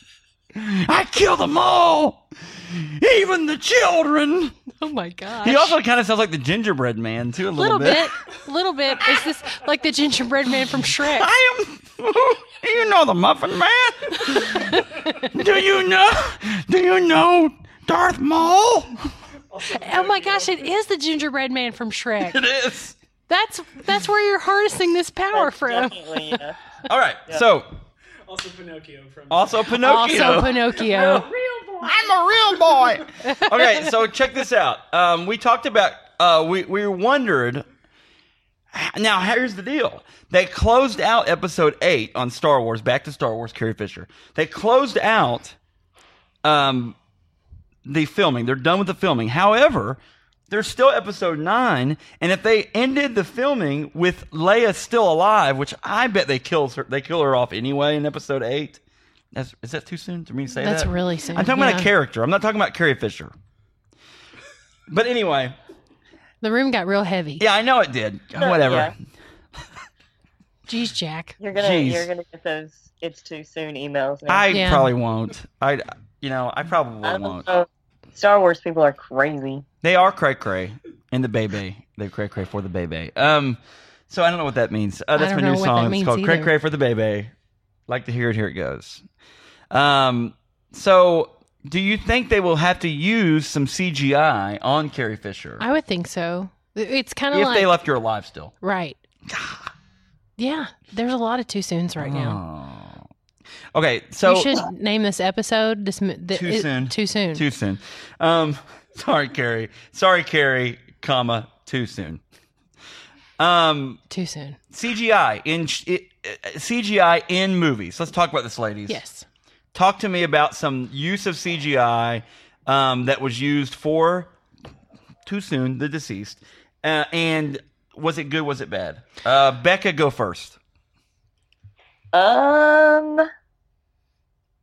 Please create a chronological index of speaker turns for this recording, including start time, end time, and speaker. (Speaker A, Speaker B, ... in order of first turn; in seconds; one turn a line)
Speaker A: 0.5-4.6
Speaker B: 4.8-5.8
Speaker A: 5.4-8.1
Speaker B: 7.6-11.3
Speaker A: 11.0-14.8
Speaker B: 14.5-15.1
Speaker A: 15.3-19.1
Speaker C: 19.5-20.7
Speaker B: 19.8-22.4
Speaker A: 22.2-23.0
Speaker B: 23.3-26.1
Speaker D: 25.3-26.6
Speaker A: 26.9-27.7
Speaker C: 28.3-29.6
Speaker A: 29.3-30.7
Speaker B: 29.8-31.3
Speaker C: 30.7-32.2
Speaker A: 31.8-37.7
Speaker B: 33.2-33.9
Speaker A: 38.7-45.6
Speaker A: 46.4-47.0
Speaker A: 47.9-58.8
Speaker A: 59.3-63.3
Speaker B: 60.6-61.9
Speaker A: 64.9-65.6
Speaker B: 66.4-67.4
Speaker A: 67.4-69.0
Speaker D: 68.4-68.9
Speaker B: 70.7-71.3
Speaker D: 71.4-74.5
Speaker A: 71.6-72.1
Speaker A: 74.3-77.5
Speaker B: 74.5-74.9
Speaker D: 77.0-79.7
Speaker A: 79.8-87.3
Speaker B: 85.2-86.5
Speaker A: 87.9-89.0
Speaker A: 89.7-95.6
Speaker B: 95.6-97.7
Speaker A: 97.3-98.5
Speaker B: 98.6-99.0
Speaker A: 99.3-99.7
Speaker B: 100.4-102.4
Speaker A: 102.0-103.1
Speaker A: 103.7-104.6
Speaker B: 104.3-107.5
Speaker A: 106.3-112.2
Speaker A: 113.4-114.0
Speaker B: 114.1-114.6
Speaker A: 114.7-119.0
Speaker B: 118.9-119.3
Speaker A: 119.7-124.3
Speaker A: 125.2-130.6
Speaker D: 132.1-133.3